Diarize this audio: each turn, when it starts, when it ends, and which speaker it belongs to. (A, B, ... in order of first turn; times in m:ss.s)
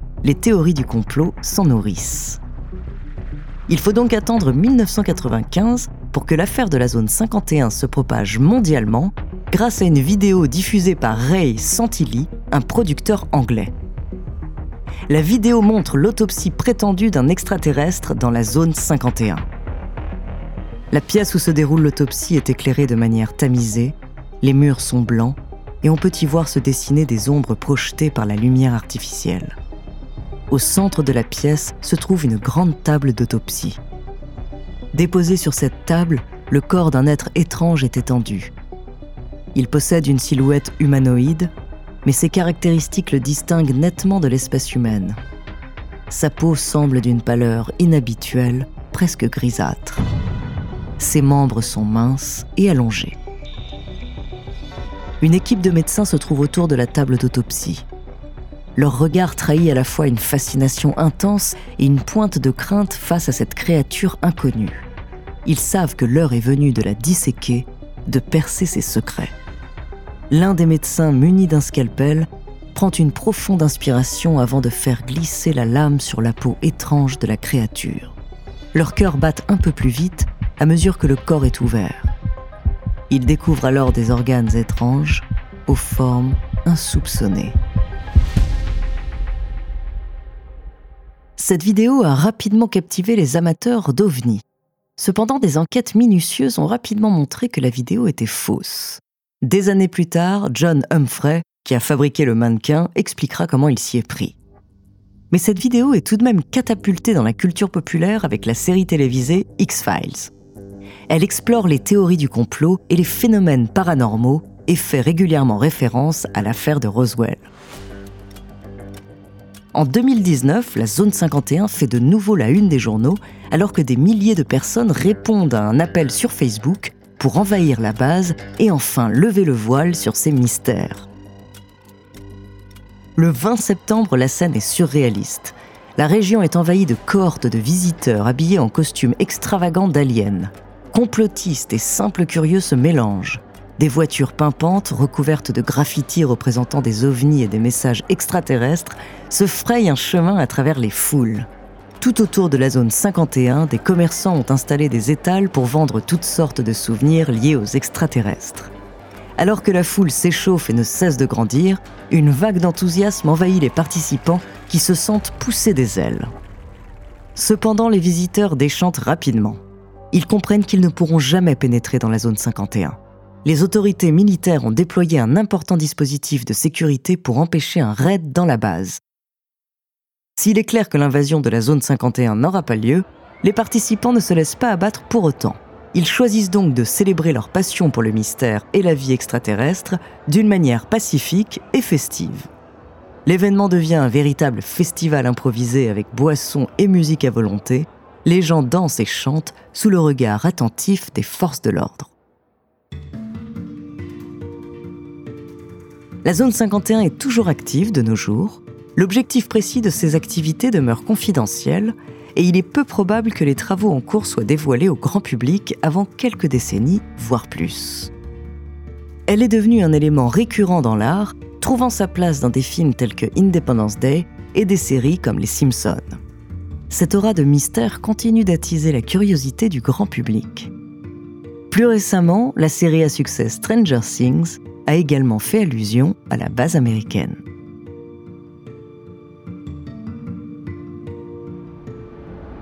0:00.2-0:02.4 A
0:03.7-0:13.7 A
0:15.1-0:19.5 A
0:20.9-0:29.6 A
0:30.5-0:33.8 A
0:34.9-0:38.5 A
0:39.5-0:41.5 A
0:42.0-0:45.2 A
0:46.1-0:50.0 A
0:51.0-0:53.2 A
0:55.2-0:57.9 A
0:58.8-1:04.8 A
1:05.4-1:09.3 A
1:10.3-1:18.2 A
1:18.7-1:22.1 A
1:23.1-1:27.6 A
1:31.4-1:34.4 A
1:35.0-1:44.4 A
1:45.3-1:50.3 A
1:51.1-1:57.5 A
1:59.7-2:11.1 A
2:13.2-2:31.5 A
2:32.0-2:38.7 A
2:39.4-2:46.3 A
2:47.4-2:49.6 A
2:50.1-2:59.0 A
3:00.4-3:12.5 A
3:13.3-3:22.1 A
3:26.2-3:38.1 A
3:39.3-3:46.2 A
3:46.9-3:50.7 A
3:51.7-3:57.4 A